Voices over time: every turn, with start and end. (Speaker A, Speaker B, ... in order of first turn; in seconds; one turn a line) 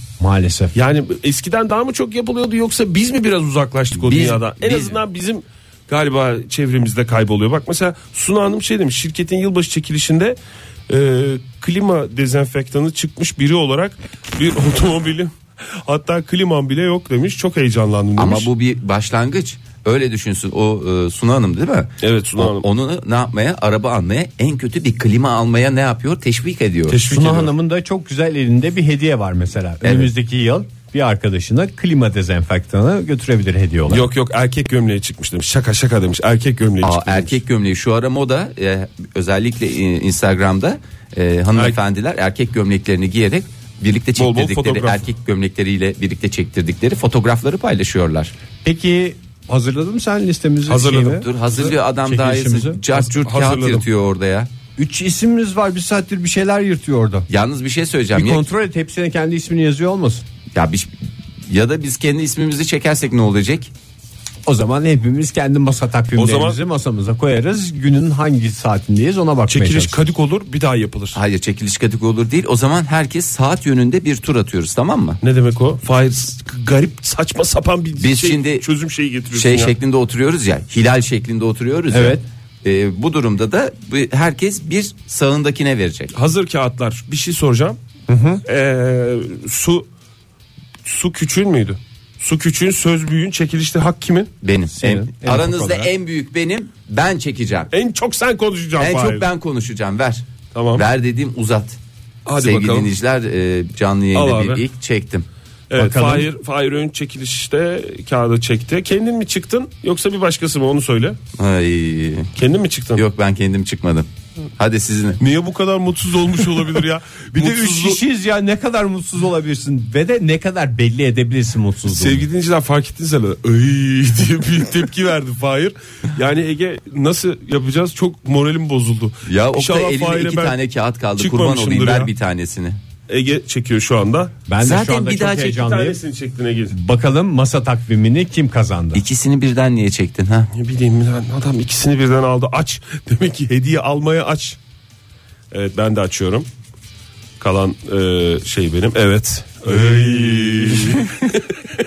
Speaker A: 0.2-0.7
Speaker B: 0.7-10.4
Speaker C: 4.0-5.0
Speaker B: 10.9-18.5
Speaker C: 18.2-27.0
Speaker B: 22.0-22.7
Speaker B: 26.9-27.5
Speaker A: 27.1-34.1
Speaker C: 29.8-30.1
Speaker B: 33.9-37.4
Speaker C: 36.8-48.3
Speaker B: 44.2-45.0
Speaker A: 48.6-52.8
Speaker B: 50.7-51.3
Speaker C: 51.0-54.5
Speaker B: 52.9-53.9
Speaker A: 54.8-57.3
Speaker C: 57.3-58.5
Speaker A: 58.1-60.2
Speaker C: 60.5-60.9
Speaker C: 61.5-63.7
Speaker A: 64.5-70.0
Speaker B: 66.2-66.6
Speaker B: 69.5-71.2
Speaker C: 71.1-75.2
Speaker B: 75.2-79.7
Speaker C: 78.0-78.7
Speaker C: 79.3-86.1
Speaker A: 81.9-82.2
Speaker B: 86.1-87.8
Speaker A: 88.1-88.4
Speaker B: 88.5-89.9
Speaker B: 90.8-94.3
Speaker C: 94.4-97.7
Speaker A: 94.8-95.9
Speaker B: 97.7-99.3
Speaker C: 98.8-101.8
Speaker B: 100.5-100.8
Speaker B: 102.3-102.9
Speaker C: 102.4-105.3
Speaker B: 104.1-104.6
Speaker B: 105.7-111.2
Speaker A: 105.8-106.3
Speaker C: 111.4-112.3
Speaker B: 112.4-113.0
Speaker C: 113.0-115.2
Speaker B: 115.2-118.0
Speaker A: 117.3-122.2
Speaker B: 121.9-130.6
Speaker C: 129.3-132.8
Speaker B: 131.2-132.1
Speaker B: 133.1-134.4
Speaker A: 134.5-136.0
Speaker C: 134.6-135.6
Speaker B: 135.2-136.8
Speaker A: 136.7-139.0
Speaker C: 138.9-140.5
Speaker B: 140.5-144.6
Speaker B: 145.5-146.5
Speaker B: 147.4-151.4
Speaker C: 149.7-151.1